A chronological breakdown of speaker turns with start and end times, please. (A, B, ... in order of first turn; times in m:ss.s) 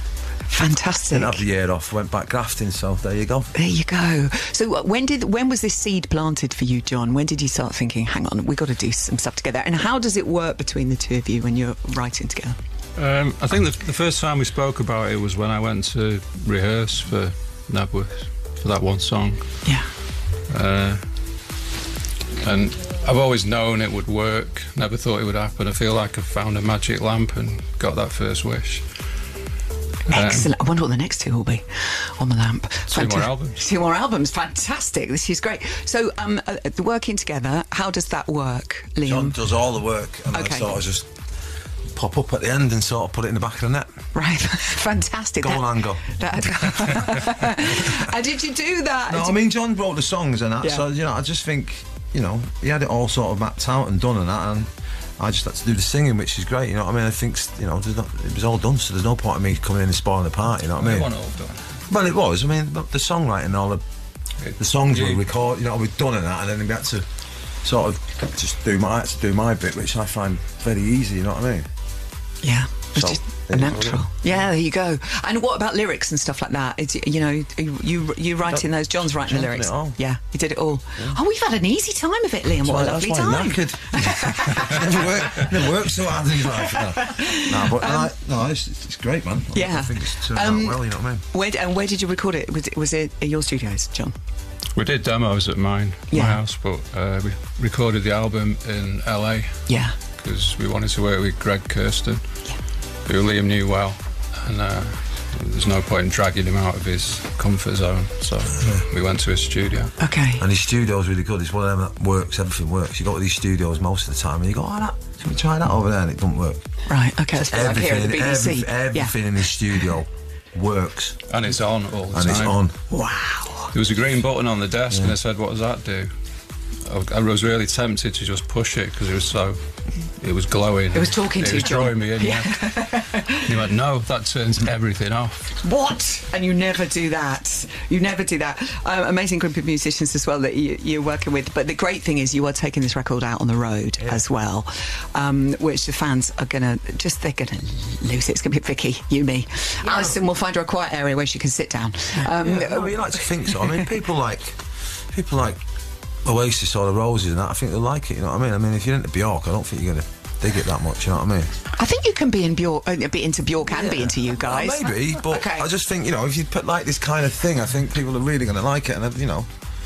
0:00.5-0:01.4 A
0:01.1-0:03.5 B
0:03.5-0:12.6 A
0:13.0-0:19.7 C
0:20.5-0:21.0 C
0:22.4-0:28.9 C
0:30.1-0:39.4 A
0:30.1-0:30.5 C
0:32.9-0:33.6 C
0:39.0-0:41.1 B
0:40.3-0:40.7 A
0:41.9-0:43.9 B
0:44.1-0:49.4 A
0:45.4-0:46.1 B
0:49.1-0:54.7 B
0:55.2-1:01.1 B
1:00.7-1:01.7 C
1:01.9-1:03.8 B
1:04.4-1:05.2 C
1:04.6-1:07.0 B
1:07.6-1:11.7 B
1:12.4-1:25.4 A
1:12.9-1:14.1 B
1:18.5-1:20.0 B
1:22.6-1:31.2 B
1:26.6-1:28.1 A
1:29.5-1:34.1 A
1:34.7-1:42.2 C
1:36.1-1:36.4 A
1:39.7-1:39.9 A
1:43.0-1:49.9 C
1:48.6-1:48.8 B
1:50.0-1:50.4 A
1:50.4-1:56.6 B
1:56.9-1:59.2 A
1:57.4-2:01.2 B
2:01.3-2:02.6 C
2:02.1-2:02.7 B
2:02.9-2:03.7 A
2:03.7-2:06.1 C
2:04.9-2:05.1 B
2:06.8-2:15.5 C
2:10.9-2:13.4 A
2:15.6-2:33.8 A
2:32.2-2:35.6 B
2:36.2-2:41.5 B
2:41.7-2:45.7 A
2:43.7-2:49.5 B